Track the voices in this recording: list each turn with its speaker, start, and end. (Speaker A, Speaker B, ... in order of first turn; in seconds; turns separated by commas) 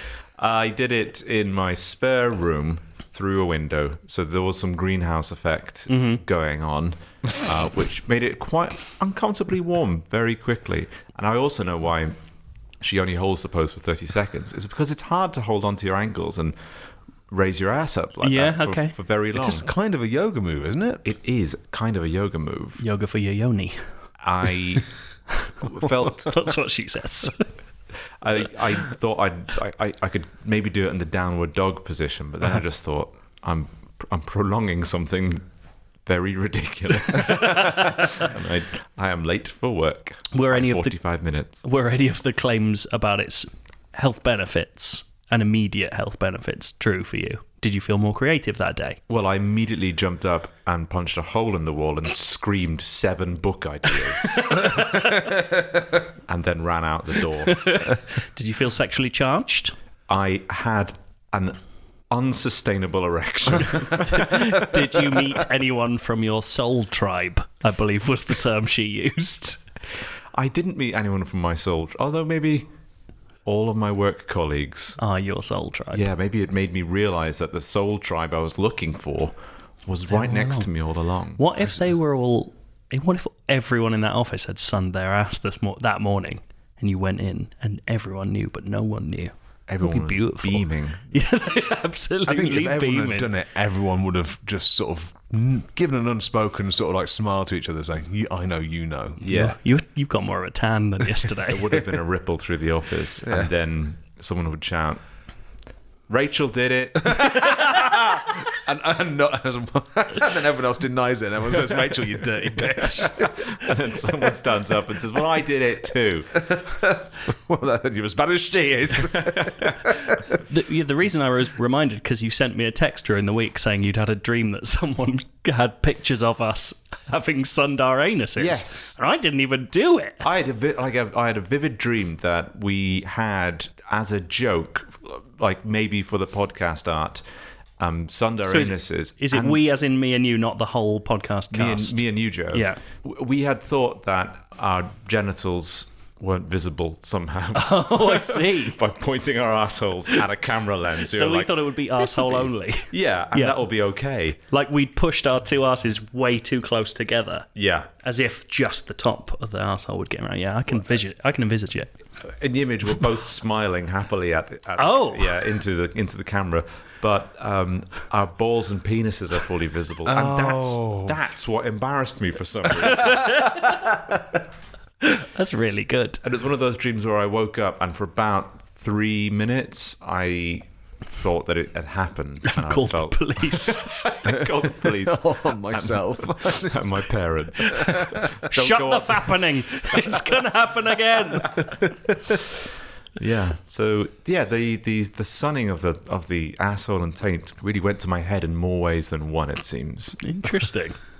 Speaker A: 0.4-12.1, Speaker B: 5.9-6.2, Speaker A: 12.8-16.5, Speaker A: 17.3-19.7, Speaker B: 18.2-18.9, Speaker C: 19.3-21.0, Speaker A: 21.0-22.8, Speaker B: 22.8-23.9, Speaker A: 24.2-24.9, Speaker B: 25.4-27.5, Speaker A: 25.6-26.5, Speaker A: 28.2-35.4, Speaker A: 36.0-41.6, Speaker B: 37.4-38.3, Speaker B: 40.3-41.0, Speaker B: 41.6-49.0, Speaker A: 49.1-54.6, Speaker B: 54.5-55.3, Speaker A: 56.3-57.6, Speaker B: 57.4-59.7, Speaker A: 60.1-61.6, Speaker A: 62.1-64.4, Speaker B: 63.9-69.6, Speaker A: 70.3-72.7, Speaker A: 73.4-75.0, Speaker B: 75.0-76.0, Speaker A: 75.9-81.4, Speaker B: 80.1-80.7, Speaker B: 81.4-93.3, Speaker A: 89.7-91.1, Speaker C: 92.3-99.2, Speaker A: 99.2-99.6, Speaker B: 99.2-101.7, Speaker A: 101.5-105.0, Speaker A: 106.1-107.6, Speaker C: 107.0-113.5, Speaker A: 113.0-116.4, Speaker C: 116.3-120.2, Speaker A: 119.3-119.8, Speaker B: 120.4-130.2, Speaker A: 128.4-128.9, Speaker A: 130.2-137.2, Speaker A: 137.8-139.6, Speaker B: 138.4-142.8, Speaker A: 141.5-154.4, Speaker B: 147.5-148.8, Speaker B: 151.1-153.6, Speaker B: 154.5-157.5, Speaker A: 157.6-157.9, Speaker B: 158.0-161.9, Speaker A: 162.4-173.5, Speaker B: 164.8-165.4, Speaker C: 170.1-171.2, Speaker B: 172.8-174.0, Speaker B: 175.0-176.2, Speaker A: 176.2-189.4, Speaker B: 182.5-183.8, Speaker C: 184.2-187.0, Speaker C: 187.7-187.9, Speaker B: 188.5-191.6, Speaker A: 193.2-200.2, Speaker B: 200.2-201.0